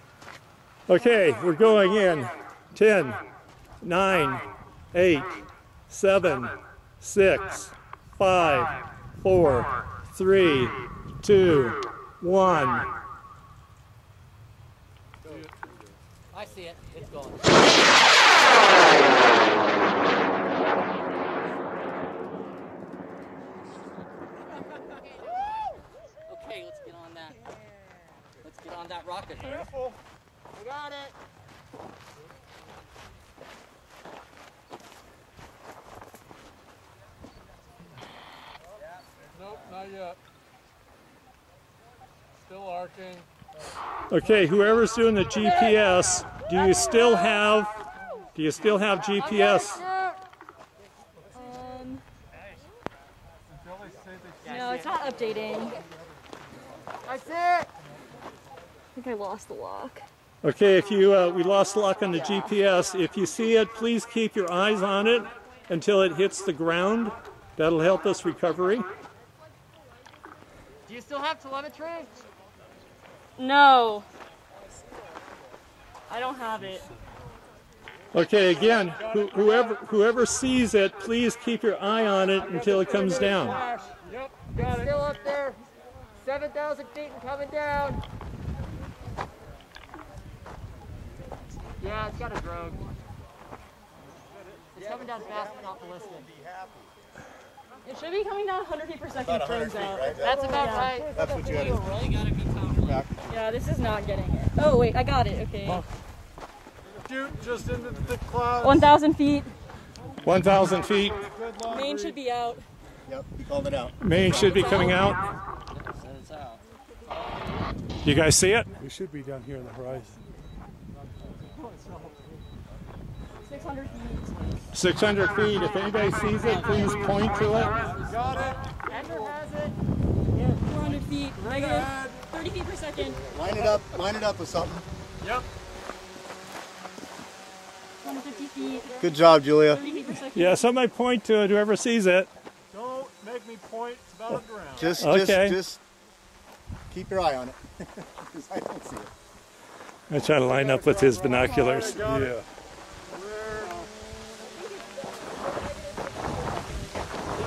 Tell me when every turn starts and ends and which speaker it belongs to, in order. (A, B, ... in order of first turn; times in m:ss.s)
0:00.9-0:03.2 A
0:03.8-0:05.3 A
0:05.9-0:12.9 A
0:16.3-0:17.6 B
0:26.3-0:27.4 B
0:28.4-0:29.7 B
0:30.5-0:31.1 C
0:39.4-0:40.2 D
0:42.4-0:43.2 D
0:44.1-0:47.8 A
0:48.3-0:49.8 A
0:49.2-0:50.2 C
0:51.3-0:52.0 E
0:54.4-0:55.8 E
0:57.0-0:57.7 C
0:59.0-1:00.0 E
1:00.4-1:08.8 A
1:02.1-1:02.5 E
1:10.9-1:12.2 C
1:13.4-1:14.1 E
1:16.1-1:16.9 E
1:18.1-1:23.6 A
1:19.0-1:19.7 D
1:22.7-1:24.9 D
1:22.9-1:23.7 C
1:24.5-1:25.6 C
1:26.2-1:28.0 C
1:31.8-1:32.8 C
1:34.7-1:36.3 C
1:37.8-1:41.0 E
1:39.2-1:41.9 F
1:40.2-1:41.1 C
1:41.2-1:43.0 B
1:42.8-1:43.4 F
1:43.3-1:45.8 E
1:47.0-1:48.9 D
1:48.6-1:49.5 E
1:50.2-1:51.2 A
1:51.3-1:52.1 D
1:51.6-1:52.6 E
1:53.1-1:54.6 F
1:54.0-1:55.2 A
1:54.1-1:55.2 E
1:55.8-1:56.6 B
1:58.0-1:58.7 A
1:58.8-2:00.2 D
2:03.4-2:04.6 E
2:04.7-2:07.9 A
2:06.4-2:08.5 B
2:08.0-2:08.8 D
2:08.9-2:09.7 C
2:10.3-2:13.2 E
2:11.7-2:12.1 D
2:13.3-2:14.8 F
2:18.0-2:19.0 E
2:19.0-2:19.8 F
2:19.6-2:20.6 E
2:20.3-2:22.3 A
2:22.7-2:25.0 D
2:24.7-2:25.8 F
2:25.0-2:25.6 A
2:26.9-2:29.1 F
2:30.1-2:32.4 A
2:30.6-2:32.4 D
2:33.1-2:33.8 D